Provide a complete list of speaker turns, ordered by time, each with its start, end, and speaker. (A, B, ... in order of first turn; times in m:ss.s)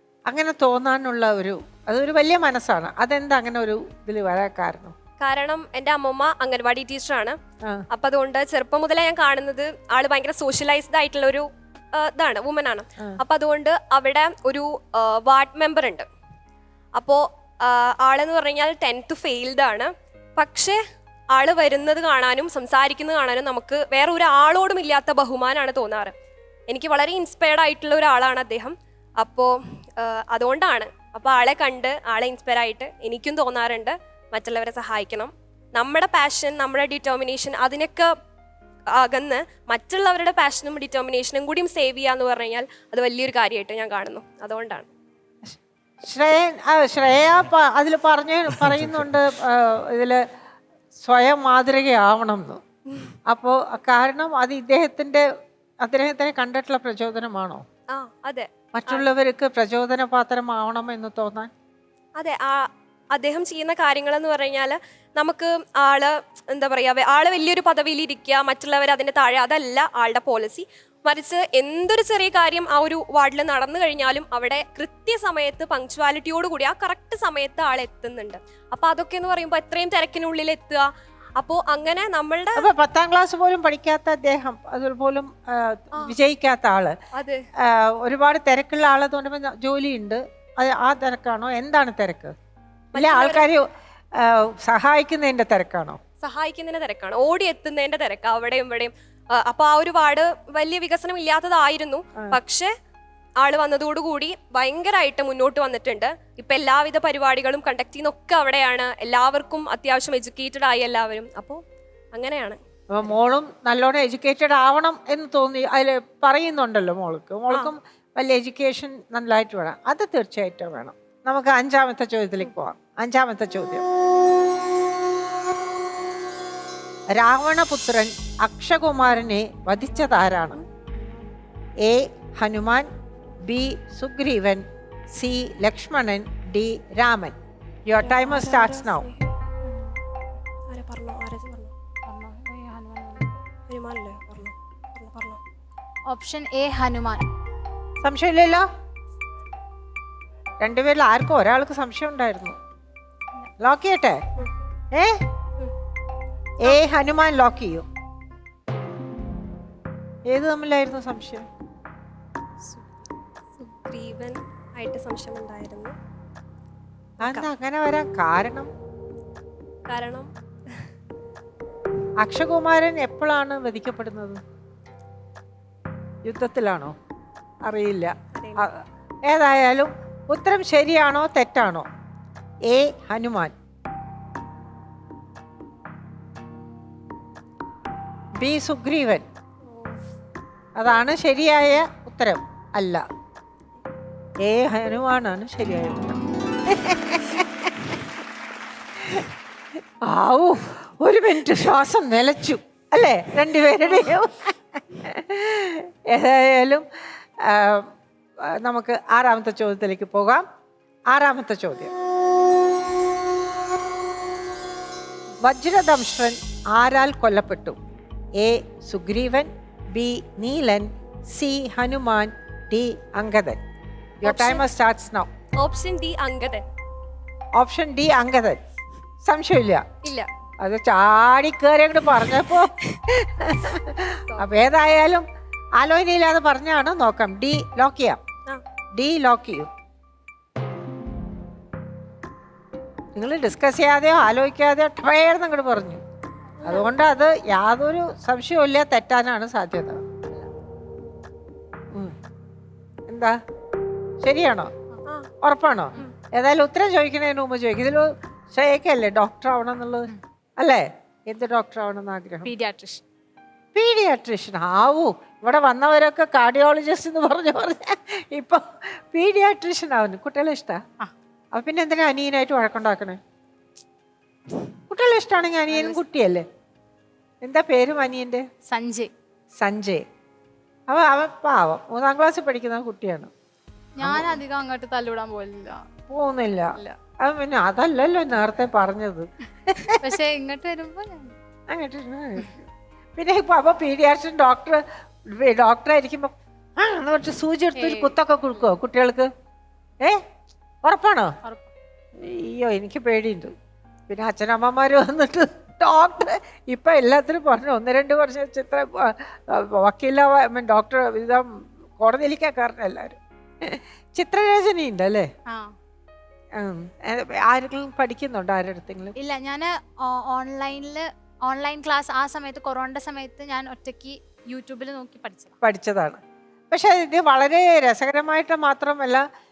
0:00.3-0:04.9 A
0:05.2-0:07.4 B
0:07.9-0:11.4 B
0:12.0-0:16.0 B
0:17.0-0:20.8 B
0:21.3-0:26.1 B
0:26.7-0:38.1 B
0:39.0-0:44.9 B
0:45.5-0:50.2 A
0:51.0-0:52.6 A
0:53.3-0:55.2 A
0:55.8-0:57.6 A
0:57.9-0:59.1 B
0:58.7-1:01.5 A
1:02.2-1:02.6 B
1:03.1-1:20.8 B
1:21.4-1:22.6 B
1:22.6-1:26.9 A
1:27.7-1:32.3 A
1:32.9-1:33.4 B
1:33.0-1:33.6 A
1:34.2-1:36.0 A
1:36.2-1:42.7 B
1:43.4-1:51.6 B
1:52.1-1:52.6 B
1:52.9-2:03.8 A
2:07.2-2:10.6 A
2:10.9-2:11.3 C
2:11.8-2:12.9 A
2:13.5-2:14.6 A
2:15.1-2:17.3 A
2:17.9-2:19.1 A
2:18.0-2:19.3 B
2:20.7-2:21.7 B
2:22.0-2:23.3 C
2:23.7-2:25.4 B
2:26.1-2:27.2 C
2:28.0-2:28.6 A
2:30.6-2:32.6 A
2:33.6-2:34.2 A
2:36.6-2:37.8 A
2:40.3-2:41.4 A
2:42.7-2:43.0 C
2:43.6-2:45.9 B
2:47.2-2:48.7 A
2:49.9-2:50.8 B
2:52.2-2:54.4 A
2:56.2-2:56.9 A
2:57.6-2:58.7 A
2:58.3-2:58.6 B
2:59.3-3:01.8 A
3:02.7-3:03.5 A
3:08.4-3:09.2 A
3:09.7-3:10.0 B
3:10.8-3:13.0 A
3:14.4-3:17.9 A
3:20.1-3:26.8 A
3:27.5-3:27.9 A
3:28.6-3:30.4 A
3:31.1-3:31.9 A
3:35.4-3:37.8 A
3:38.4-3:43.6 A
3:44.2-3:45.3 A
3:44.2-3:44.6 B
3:45.6-3:46.6 B
3:47.6-3:48.6 A
3:49.2-3:49.8 A
3:50.6-3:55.2 A
3:52.3-3:52.6 B
3:55.8-3:58.2 A
3:59.0-3:59.7 A
4:03.1-4:06.0 A
4:06.6-4:06.9 B
4:06.6-4:10.0 A
4:13.1-4:13.4 A
4:14.2-4:14.7 A
4:15.4-4:22.5 A
4:22.4-4:23.0 C
4:23.7-4:28.6 A
4:29.1-4:30.8 A
4:31.5-4:33.2 A
4:34.9-4:36.4 A
4:35.7-4:36.0 C
4:37.4-4:38.4 A
4:38.7-4:39.1 C
4:39.6-4:40.0 A
4:40.9-4:43.3 A
4:44.0-4:45.8 C
4:44.0-4:44.4 A
4:46.1-4:50.0 A
4:49.9-4:51.3 C
4:51.7-4:59.3 A
4:57.7-4:58.1 C
5:00.8-5:01.3 A
5:01.4-5:01.7 C
5:02.2-5:03.5 A
5:04.1-5:15.3 A
5:15.5-5:15.7 C
5:16.6-5:19.1 A
5:19.2-5:25.6 C
5:25.6-5:26.2 A
5:26.7-5:29.2 A